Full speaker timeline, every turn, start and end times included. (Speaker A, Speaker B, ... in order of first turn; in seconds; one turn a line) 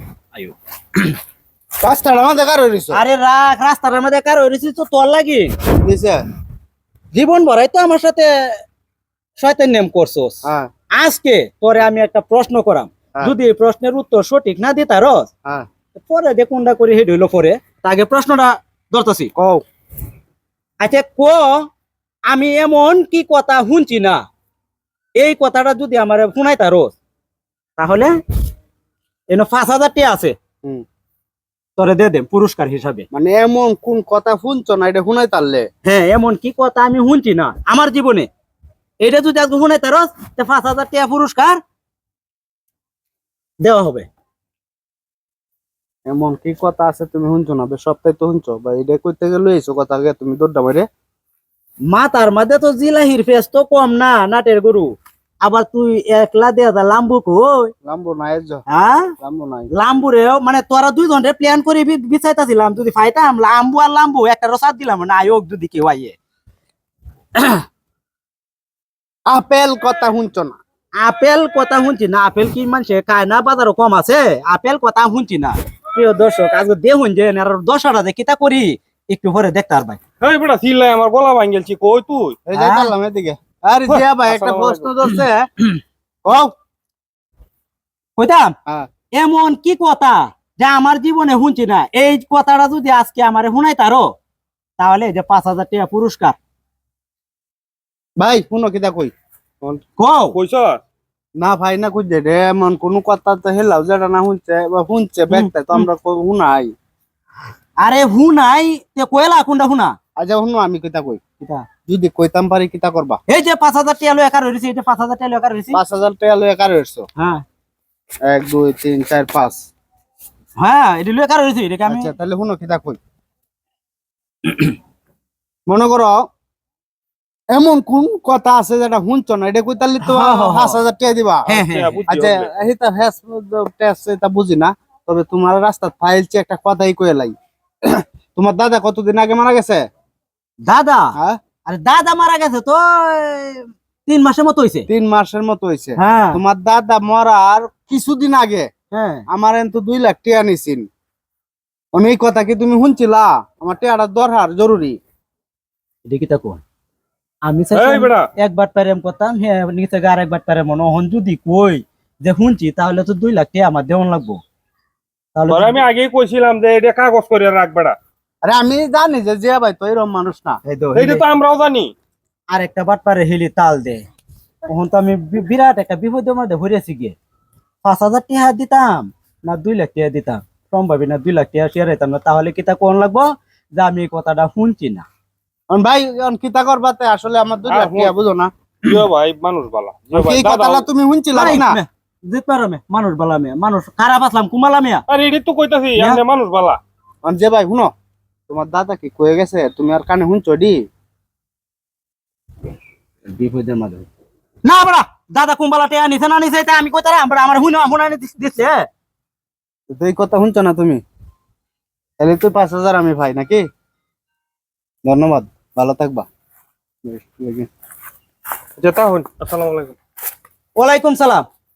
Speaker A: 0.3-1.1
Speaker B: 1.8-3.0
Speaker A: 2.9-5.5
Speaker B: 5.8-6.2
Speaker A: 7.1-8.6
Speaker A: 9.4-10.4
Speaker A: 10.9-15.3
Speaker A: 15.9-19.3
Speaker B: 19.4-19.6
Speaker A: 20.8-21.7
Speaker A: 22.3-24.2
Speaker A: 25.2-27.0
Speaker A: 27.8-28.1
Speaker A: 29.3-30.4
Speaker A: 31.8-33.1
Speaker B: 33.1-35.7
Speaker A: 35.9-38.3
Speaker A: 39.0-41.6
Speaker A: 43.6-44.1
Speaker B: 46.1-50.9
Speaker A: 51.9-57.7
Speaker B: 57.9-58.7
Speaker A: 58.7-59.1
Speaker B: 59.2-59.7
Speaker A: 59.7-66.2
Speaker A: 67.3-67.7
Speaker B: 69.3-70.6
Speaker A: 71.0-80.0
Speaker C: 80.2-82.4
Speaker B: 82.5-85.5
Speaker A: 82.5-82.9
Speaker C: 83.9-84.9
Speaker B: 86.2-86.5
Speaker A: 88.2-88.5
Speaker A: 89.1-94.1
Speaker A: 94.8-96.4
Speaker B: 98.2-99.1
Speaker A: 100.0-100.4
Speaker C: 100.3-100.8
Speaker B: 101.4-106.7
Speaker A: 105.3-105.9
Speaker A: 107.8-110.0
Speaker B: 110.2-111.2
Speaker A: 111.4-111.7
Speaker B: 111.9-113.2
Speaker A: 113.3-115.8
Speaker B: 115.7-117.1
Speaker A: 117.2-117.4
Speaker B: 118.2-119.7
Speaker A: 120.6-122.1
Speaker B: 121.9-123.0
Speaker B: 125.7-126.3
Speaker B: 127.5-131.5
Speaker A: 130.0-130.8
Speaker A: 131.5-132.1
Speaker C: 131.5-132.5
Speaker B: 132.1-139.8
Speaker A: 140.7-141.1
Speaker A: 141.7-144.9
Speaker B: 144.9-148.7
Speaker A: 146.0-146.4
Speaker A: 148.9-149.2
Speaker B: 149.3-150.9
Speaker B: 151.9-155.0
Speaker A: 156.1-156.6
Speaker A: 157.5-164.4
Speaker C: 157.7-158.3
Speaker A: 165.3-165.8
Speaker C: 165.5-168.0
Speaker B: 168.4-170.6
Speaker A: 170.7-171.2
Speaker C: 170.9-171.9
Speaker A: 172.5-174.1
Speaker A: 174.7-177.2
Speaker A: 177.8-185.1
Speaker B: 185.7-188.5
Speaker C: 187.7-188.2
Speaker C: 188.8-190.9
Speaker B: 190.1-191.8
Speaker A: 191.3-195.1
Speaker C: 195.1-196.8
Speaker B: 197.2-197.9
Speaker B: 198.5-200.8
Speaker A: 203.3-204.1
Speaker A: 204.7-208.9
Speaker B: 209.9-211.0
Speaker B: 212.2-213.7
Speaker B: 215.1-216.3
Speaker B: 217.0-217.7
Speaker C: 218.8-220.0
Speaker A: 220.8-221.4